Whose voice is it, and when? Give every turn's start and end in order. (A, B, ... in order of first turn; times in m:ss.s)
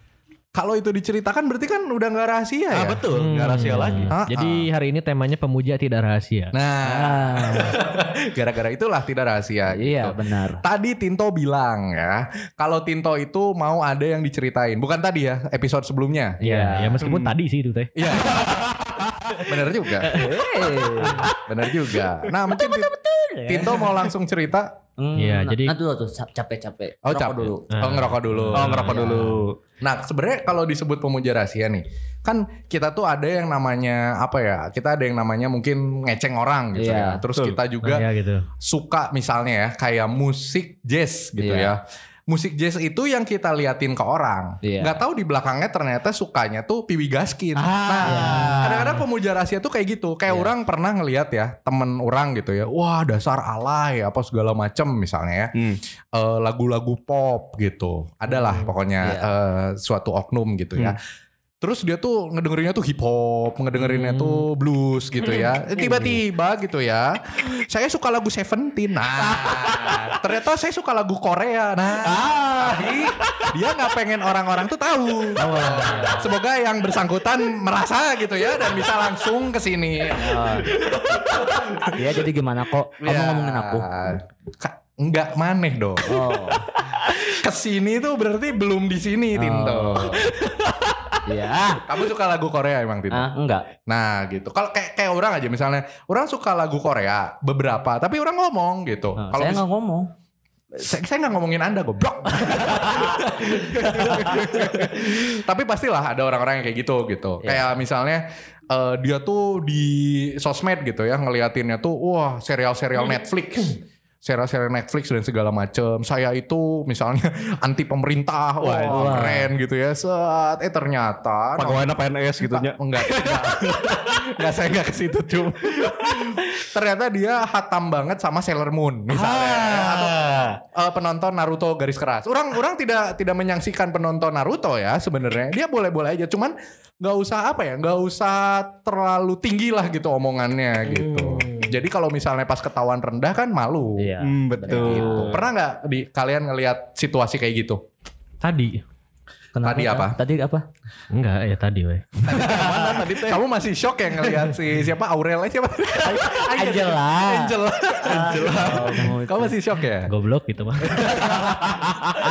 0:00.6-0:03.0 A
0:02.7-0:04.1 B
0:03.1-0:06.5 C
0:04.1-0:04.7 A
0:06.5-0:16.4 A
0:06.8-0:07.8 D
0:09.7-0:10.6 D
0:16.4-0:17.1 D
0:16.4-0:18.1 C
0:17.0-0:17.4 B
0:18.0-0:18.8 A
0:18.1-0:19.4 B
0:19.4-0:20.2 A
0:20.0-0:20.3 C
0:20.1-0:21.3 D
0:21.0-0:21.3 C
0:21.4-0:22.9 A
0:22.5-0:24.0 D
0:23.5-0:24.7 A
0:25.0-0:27.7 D
0:25.2-0:25.8 C
0:27.0-0:29.0 A
0:27.7-0:29.5 C
0:28.5-0:29.6 B
0:28.9-0:29.3 D
0:29.8-0:38.1 A
0:36.8-0:37.2 D
0:37.8-0:38.5 C
0:38.6-0:55.5 A
0:41.4-0:41.7 D
0:44.6-0:45.0 D
0:47.6-0:48.9 B
0:48.0-0:48.7 D
0:56.2-1:01.0 A
0:58.3-0:58.7 C
0:59.0-0:59.3 D
1:01.6-1:21.8 A
1:03.8-1:04.5 C
1:05.2-1:05.5 C
1:05.8-1:06.2 D
1:09.2-1:10.2 B
1:12.0-1:13.5 B
1:15.4-1:16.3 D
1:20.1-1:20.7 D
1:20.7-1:21.9 B
1:21.9-1:24.2 D
1:23.0-1:26.4 A
1:26.1-1:26.7 D
1:27.2-1:30.3 A
1:29.4-1:30.3 D
1:30.3-1:31.2 B
1:31.3-1:31.8 D
1:31.9-1:33.3 A
1:33.1-1:33.7 D
1:33.9-1:39.6 A
1:39.2-1:40.1 D
1:40.7-2:01.9 A
1:42.6-1:44.4 D
1:44.0-1:44.9 B
1:58.6-1:59.3 B
1:58.9-1:59.5 D
2:01.6-2:04.4 B
2:02.4-2:24.1 A
2:05.8-2:06.5 B
2:09.1-2:10.6 B
2:20.9-2:21.8 C
2:24.0-2:25.4 D
2:24.2-2:25.4 B
2:24.7-2:27.8 A
2:28.4-2:28.8 C
2:29.5-2:30.6 D
2:29.6-2:30.2 A
2:31.1-2:32.2 C
2:32.2-2:40.1 A
2:32.3-2:33.4 B
2:32.5-2:32.8 D
2:36.0-2:39.6 D
2:38.0-2:39.0 B
2:40.1-2:41.2 C
2:40.8-2:41.9 A
2:41.6-2:42.1 B